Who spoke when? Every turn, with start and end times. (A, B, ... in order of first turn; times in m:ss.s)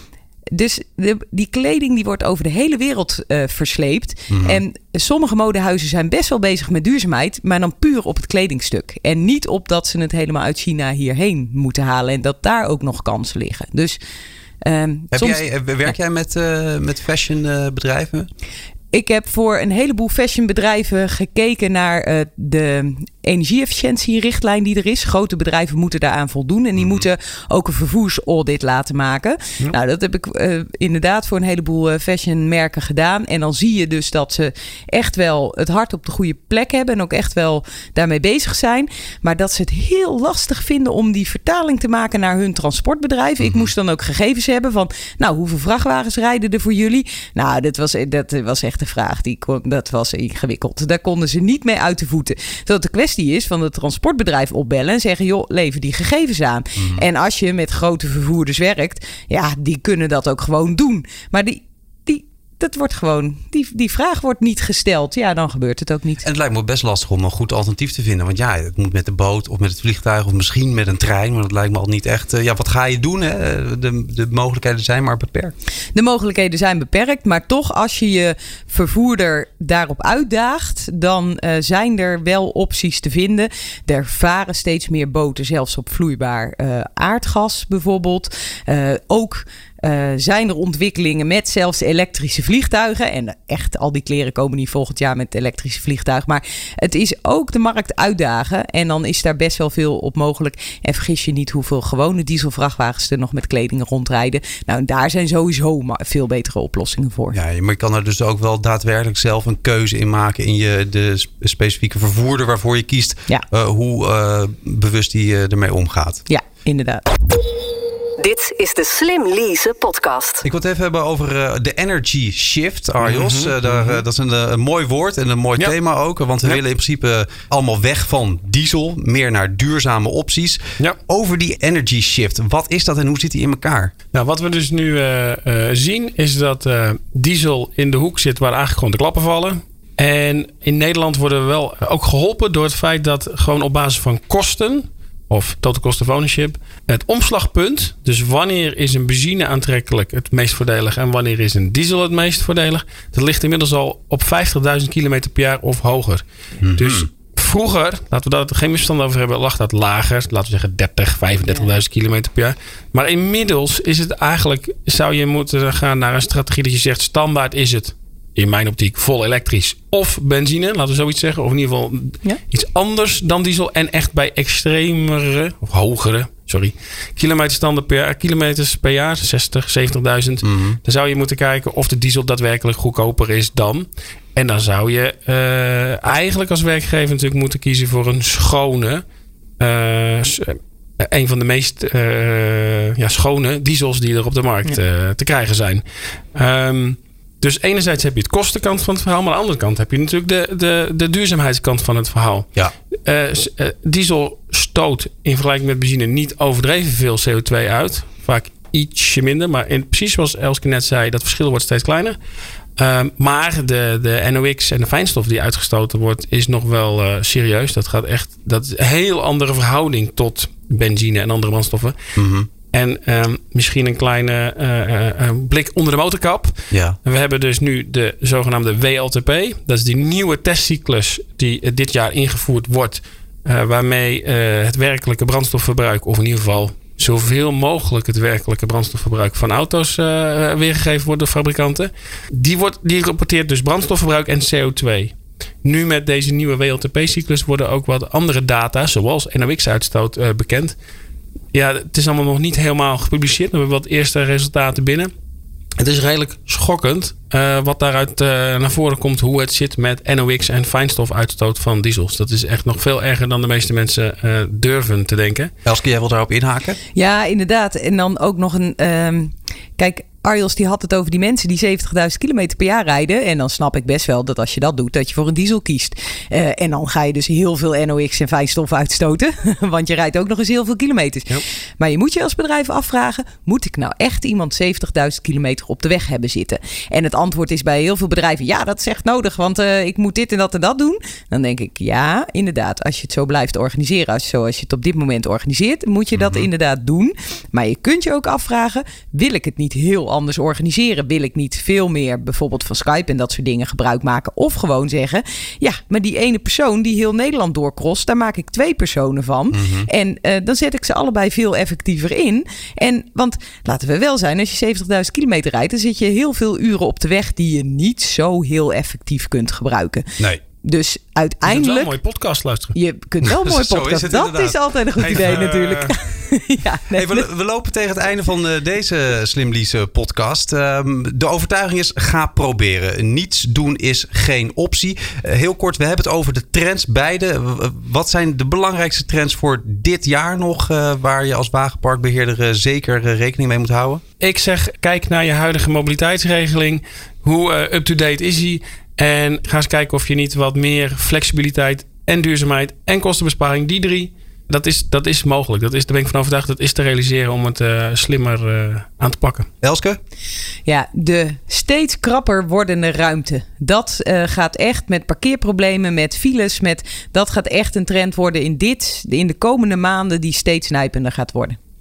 0:00.5-0:14.0 A
0:04.3-0:04.6 B
0:14.6-0:15.9 A
0:15.1-0:18.3 B
0:18.9-1:06.2 A
0:26.8-0:27.0 B
0:43.4-0:43.7 B
0:56.8-0:57.0 B
1:06.2-1:15.5 B
1:15.9-1:47.4 A
1:47.3-1:56.2 B
1:56.3-1:57.1 A
1:58.2-2:00.4 C
2:00.4-2:13.9 B
2:03.0-2:04.0 D
2:14.1-3:09.0 D
2:36.6-2:37.1 B
3:00.4-3:00.8 B
3:09.6-3:22.5 D
3:23.0-3:32.2 D
3:32.8-3:42.0 D
3:42.2-3:42.5 B
3:42.7-4:10.8 D
3:46.7-3:47.0 B
4:11.5-4:15.1 D
4:15.8-4:25.5 D
4:25.6-4:26.8 B
4:26.9-5:20.1 A
4:56.1-4:56.5 B
5:09.5-5:09.9 B
5:20.6-5:21.9 A
5:21.4-5:22.8 D
5:22.7-5:27.3 A
5:23.2-5:25.4 B
5:25.0-5:25.9 D
5:26.9-5:44.0 B
5:44.2-5:59.5 D
5:59.6-6:00.0 B
6:00.6-6:11.6 A